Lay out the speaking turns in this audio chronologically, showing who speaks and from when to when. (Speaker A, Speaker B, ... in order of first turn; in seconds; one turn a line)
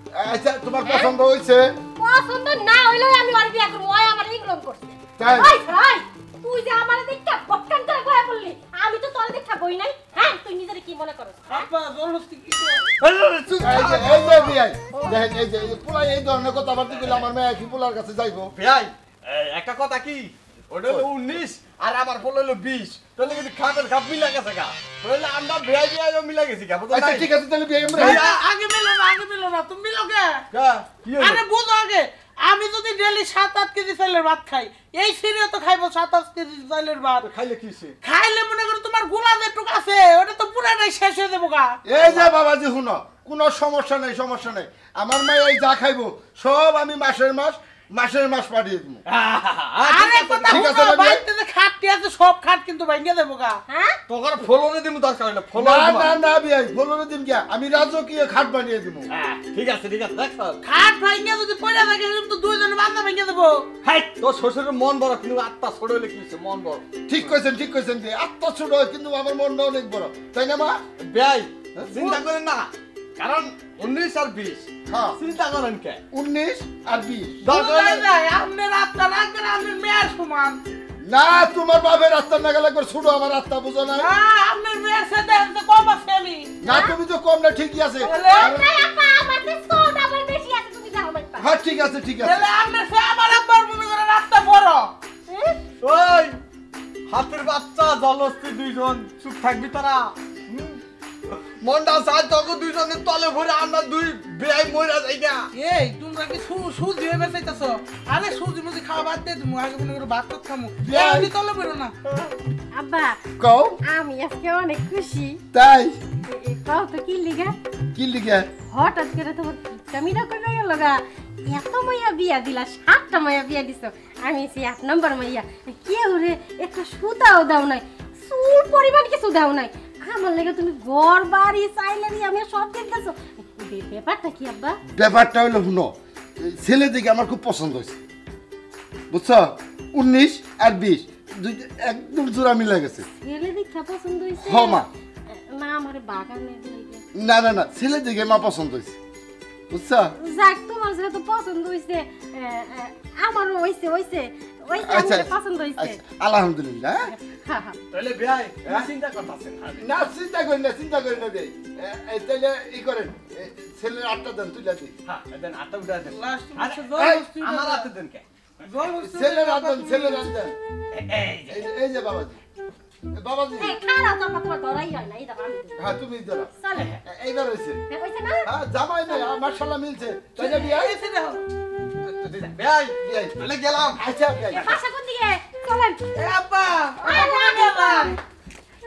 Speaker A: 0.1-1.8
Speaker B: 0.8-1.1
Speaker B: 2.0-11.7
Speaker A: 5.2-5.5
Speaker C: 11.5-12.9
Speaker D: 13.0-14.2
Speaker A: 13.6-18.5
Speaker D: 16.9-17.3
Speaker D: 18.5-27.3
Speaker A: 26.9-28.2
Speaker C: 27.9-30.4
Speaker D: 28.0-28.4
Speaker D: 30.5-31.4
Speaker C: 31.1-37.3
Speaker D: 37.2-38.0
Speaker C: 38.0-41.7
Speaker A: 41.9-49.0
Speaker D: 42.0-42.3
Speaker D: 49.1-50.7
Speaker C: 49.8-53.6
Speaker A: 50.5-51.2
Speaker B: 53.7-54.0
Speaker D: 54.1-56.1
Speaker A: 55.5-59.1
Speaker D: 59.1-60.6
Speaker C: 60.6-63.7
Speaker D: 63.8-66.9
Speaker A: 67.1-70.8
Speaker D: 71.0-76.0
Speaker A: 71.8-72.1
Speaker A: 74.9-75.2
Speaker A: 76.1-77.4
Speaker C: 77.4-80.6
Speaker D: 77.4-78.0
Speaker A: 81.0-84.1
Speaker C: 83.9-86.5
Speaker A: 86.6-88.7
Speaker B: 86.6-86.9
Speaker B: 88.0-91.6
Speaker C: 88.0-88.5
Speaker A: 91.4-92.4
Speaker C: 92.2-94.9
Speaker B: 95.3-95.6
Speaker D: 95.8-96.4
Speaker D: 97.1-105.5
Speaker C: 105.5-111.9
Speaker A: 110.8-111.3
Speaker B: 112.7-113.2
Speaker A: 113.4-113.8
Speaker B: 113.8-115.4
Speaker A: 115.5-116.0
Speaker B: 116.2-117.5
Speaker A: 117.9-118.5
Speaker B: 118.7-134.8
Speaker A: 134.9-138.0
Speaker A: 139.1-143.0
Speaker B: 143.0-147.0
Speaker A: 144.4-144.9
Speaker A: 147.1-148.9
Speaker A: 149.7-150.1
Speaker B: 150.2-156.0
Speaker A: 154.8-157.1
Speaker B: 157.0-157.8
Speaker D: 157.9-159.9
Speaker A: 159.8-164.9
Speaker D: 165.0-168.6
Speaker C: 166.1-167.9
Speaker A: 166.9-167.3
Speaker C: 168.6-170.2
Speaker A: 168.9-170.6
Speaker D: 170.9-171.7
Speaker A: 171.5-172.4
Speaker A: 173.1-173.8
Speaker B: 173.6-175.9
Speaker A: 175.8-176.5
Speaker B: 176.5-177.0
Speaker A: 177.0-177.8
Speaker B: 177.9-178.5
Speaker A: 178.4-180.9
Speaker B: 179.1-179.5
Speaker C: 180.4-181.4
Speaker D: 182.0-184.0
Speaker A: 183.0-183.4
Speaker A: 183.9-184.8
Speaker B: 184.5-186.0
Speaker C: 186.1-188.2
Speaker B: 187.0-188.2